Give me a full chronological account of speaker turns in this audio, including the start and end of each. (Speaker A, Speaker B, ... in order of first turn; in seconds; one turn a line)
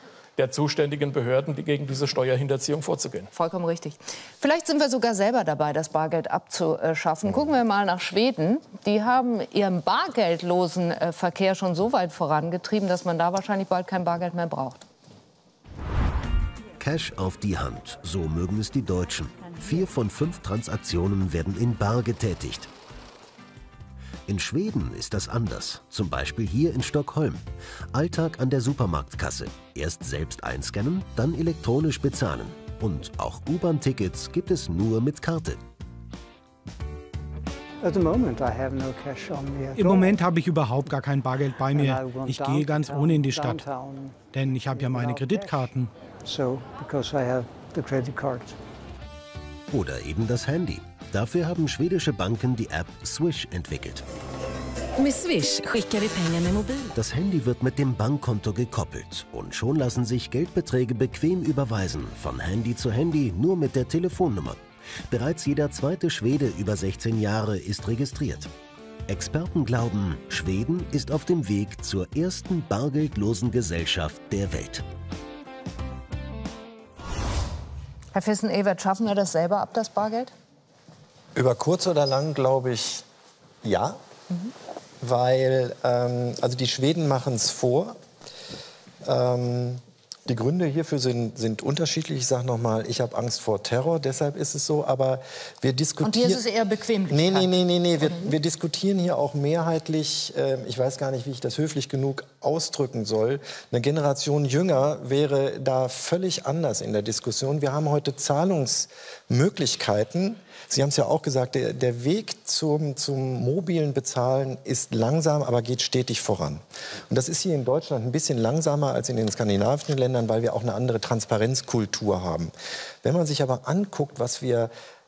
Speaker A: 0.4-3.3
Speaker B: 3.3-14.8
Speaker C: 16.8-22.7
Speaker C: 24.3-35.6
Speaker D: 37.8-40.3
Speaker E: 39.8-43.7
Speaker D: 41.7-48.5
Speaker E: 44.3-45.9
Speaker C: 49.7-54.0
Speaker F: 55.0-56.9
Speaker C: 56.9-68.5
Speaker C: 69.1-74.8
Speaker B: 78.1-80.3
Speaker G: 81.3-83.0
Speaker G: 83.6-84.0
Speaker G: 85.0-88.0
Speaker G: 89.0-96.4
Speaker B: 96.0-98.3
Speaker G: 97.1-124.7